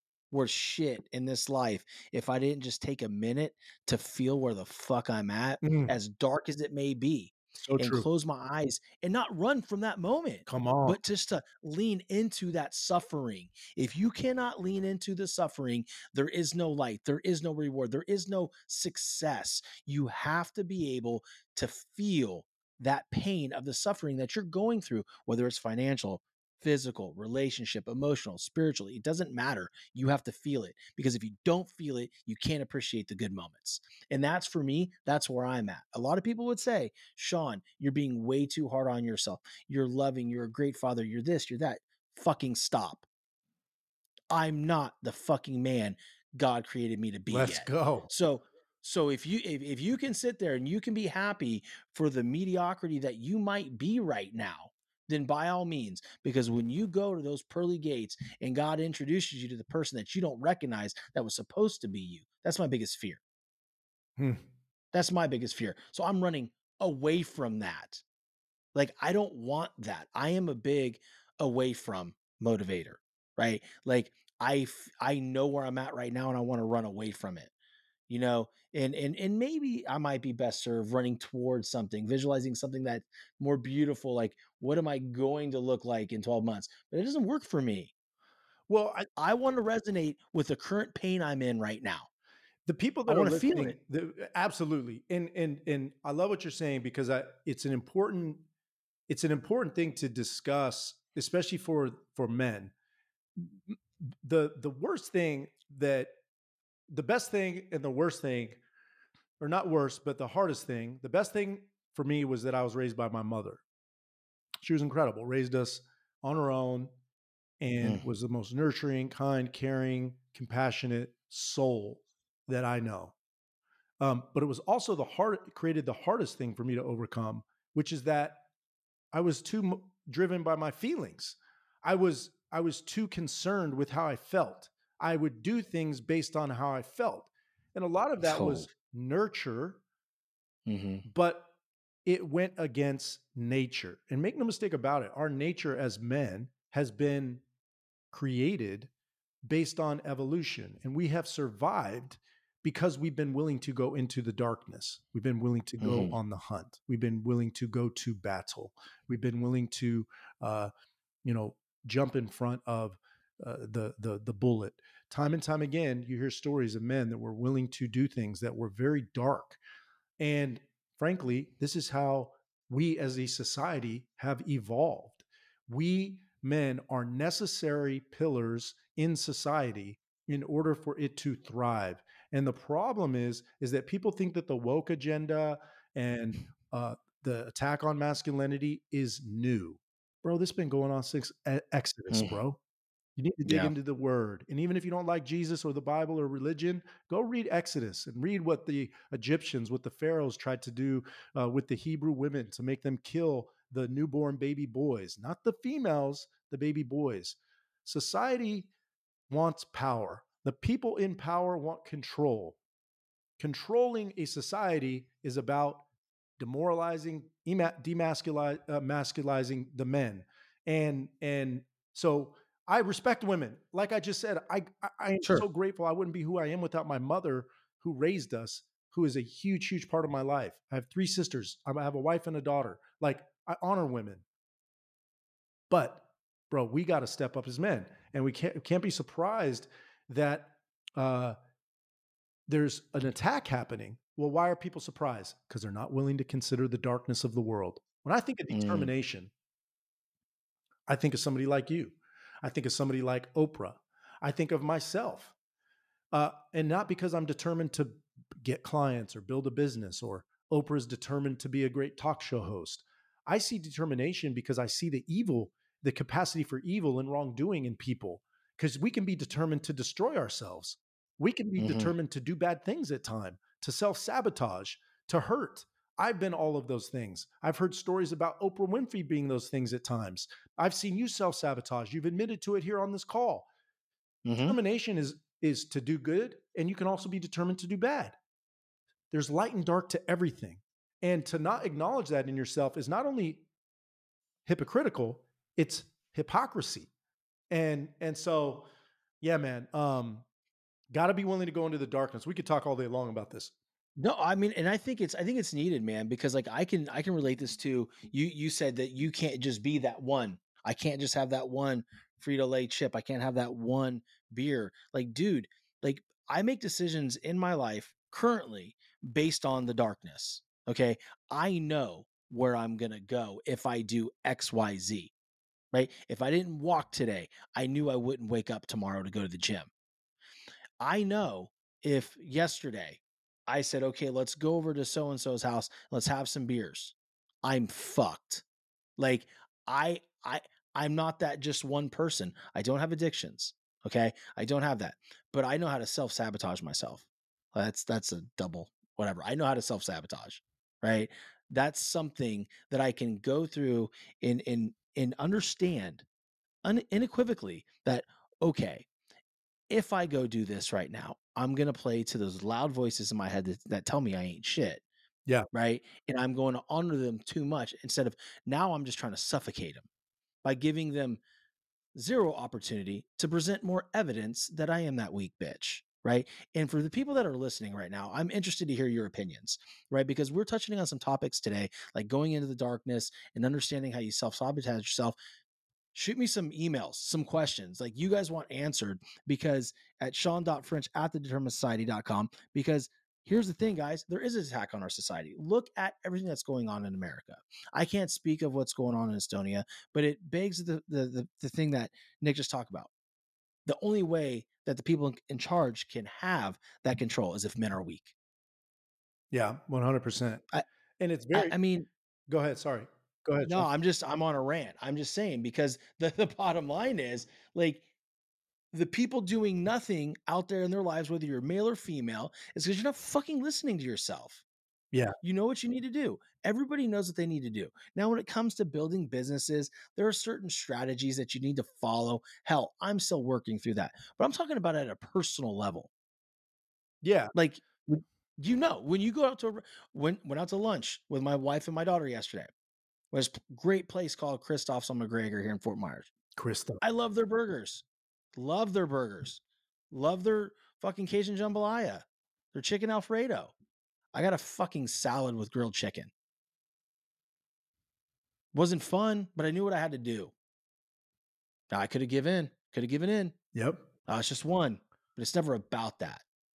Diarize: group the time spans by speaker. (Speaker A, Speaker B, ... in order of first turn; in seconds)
Speaker A: 0.3-43.1, 44.3-63.2, 64.9-68.0, 68.7-77.5, 78.1-87.9, 89.2-92.1, 93.1-93.8, 138.2-138.7, 140.7-141.0, 155.8-156.1, 192.1-192.4, 193.4-193.7, 248.5-248.9, 271.6-271.9, 284.2-284.6, 304.0-325.1, 325.7-329.7, 330.8-338.4, 339.0-356.0, 356.6-358.9, 359.7-364.8, 365.5-369.8, 370.4-371.2, 371.9-385.1, 385.9-402.9, 403.6-408.1, 411.3-411.9, 413.4-417.8, 418.7-424.4, 425.2-435.9, 437.3-442.5, 443.1-446.1, 446.8-447.8, 448.4-453.5, 454.1-456.1, 458.5-460.3, 461.7-463.4, 464.1-466.2
Speaker B: 5.6-5.9, 7.6-8.1, 10.5-11.0, 47.3-48.1, 64.2-64.5, 88.7-89.1, 92.7-98.5, 99.1-102.7, 103.3-106.1, 106.9-108.6, 109.4-113.6, 114.6-116.9, 117.6-123.1, 124.0-128.4, 129.1-139.8, 141.1-141.5, 142.0-147.4, 148.1-148.9, 149.4-160.7, 161.2-169.6, 170.2-192.6, 193.2-208.7, 209.3-212.6, 213.4-215.8, 216.4-234.2, 235.7-241.4, 242.5-249.3, 250.9-255.3, 256.1-283.5, 284.4-288.2, 289.1-293.4, 294.4-296.9, 297.5-298.7, 299.2-300.2, 300.9-303.5, 409.3-410.4, 411.0-411.6, 412.3-413.7, 437.0-437.3, 446.4-446.8, 463.5-463.9